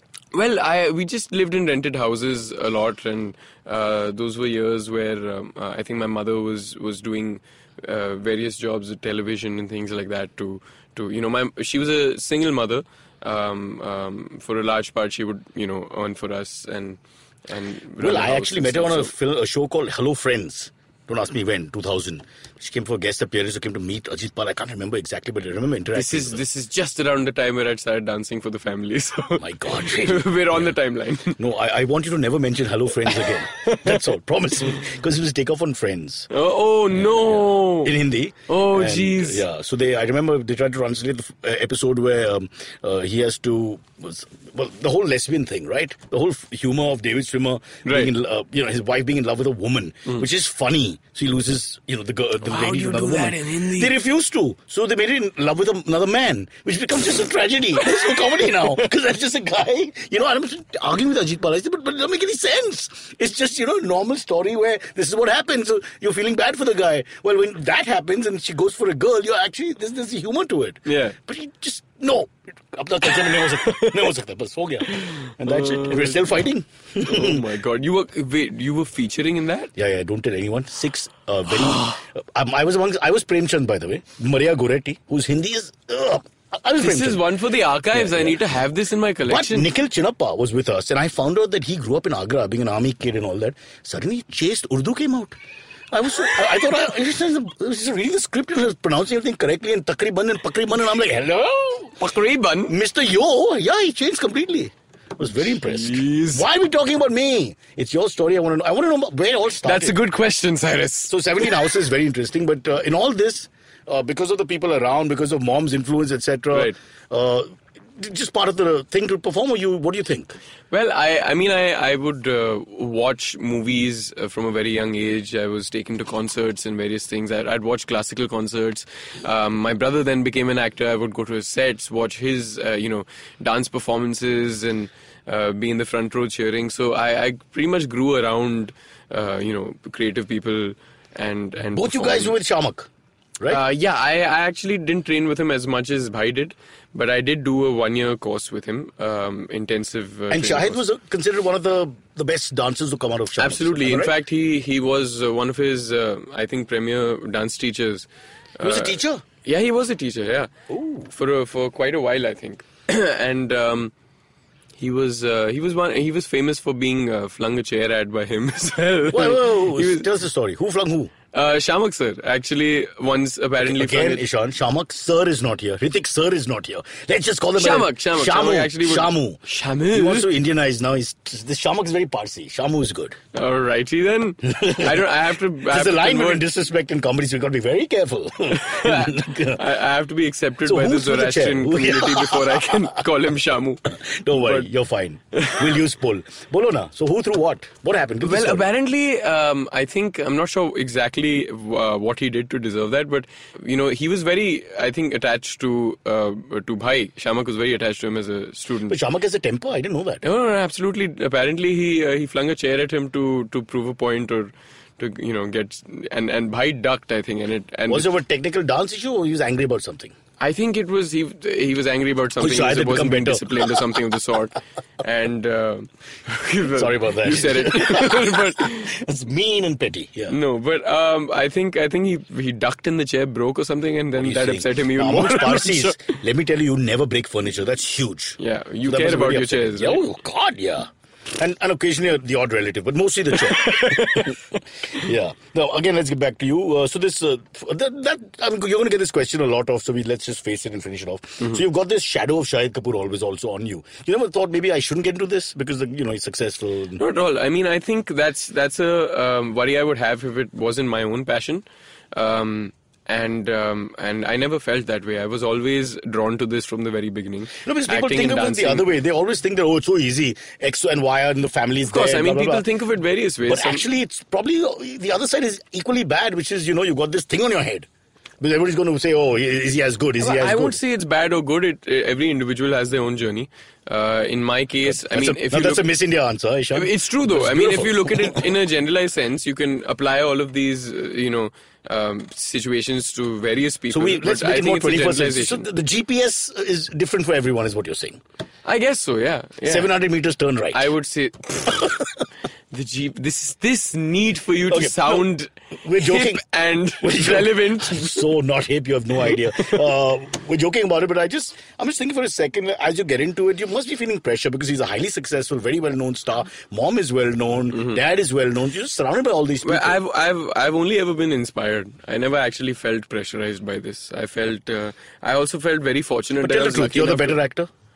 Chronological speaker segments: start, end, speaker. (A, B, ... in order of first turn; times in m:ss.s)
0:00.3-0:19.1 A
0:18.0-0:26.4 B
0:25.9-0:31.4 A
0:29.4-0:30.8 B
0:31.3-0:36.3 B
0:33.6-0:34.0 A
0:36.3-0:38.0 A
0:37.7-1:17.4 B
0:38.5-0:39.4 A
0:47.9-0:48.1 A
0:52.4-0:53.9 A
1:10.9-1:11.2 A
1:13.6-1:14.0 A
1:14.9-1:16.3 A
1:17.0-1:19.7 A
1:19.8-1:27.3 B
1:21.6-1:22.0 A
1:26.8-1:29.7 A
1:27.9-1:28.4 B
1:29.3-1:35.4 B
1:35.9-1:42.1 B
1:42.0-1:42.8 A
1:42.7-1:50.0 B
1:45.6-1:46.5 A
1:49.6-1:51.5 A
1:51.1-2:00.4 B
2:00.7-2:22.4 A
2:21.8-2:22.9 B
2:23.5-2:30.8 A
2:30.3-2:34.1 B
2:33.4-2:38.1 A
2:38.6-2:40.5 A
2:38.6-2:39.2 B
2:40.7-2:41.1 B
2:41.1-2:43.9 A
2:44.8-2:50.1 A
2:49.1-2:51.1 B
2:51.3-2:54.2 A
2:53.6-2:59.4 B
2:57.6-3:00.3 A
2:59.9-3:03.2 B
3:03.3-3:06.4 A
3:04.4-3:05.1 B
3:05.7-3:09.6 B
3:08.5-3:14.7 A
3:10.6-3:13.0 B
3:13.9-3:18.7 B
3:15.4-3:15.6 A
3:18.2-3:29.0 A
3:28.9-3:30.2 B
3:30.2-3:38.1 A
3:37.9-3:40.1 B
3:40.4-3:48.9 A
3:42.4-3:43.8 B
3:46.7-3:50.4 B
3:50.3-3:56.0 A
3:54.2-4:04.4 B
3:58.4-4:00.0 A
4:03.4-4:04.4 A
4:04.9-4:17.0 B
4:17.0-4:28.9 A
4:27.6-4:32.6 B
4:31.9-4:33.9 A
4:33.5-4:37.9 B
4:38.4-4:40.8 B
4:40.2-4:45.9 A
4:44.8-4:48.5 B
4:46.7-4:55.7 A
4:53.9-4:58.2 B
4:58.6-4:59.9 A
4:59.6-5:00.9 B
5:00.7-5:02.0 A
5:02.7-5:08.2 A
5:04.7-5:05.3 B
5:05.8-5:06.4 B
5:07.0-5:20.0 B
5:17.7-5:18.0 A
5:19.6-5:27.4 A
5:26.4-5:27.7 B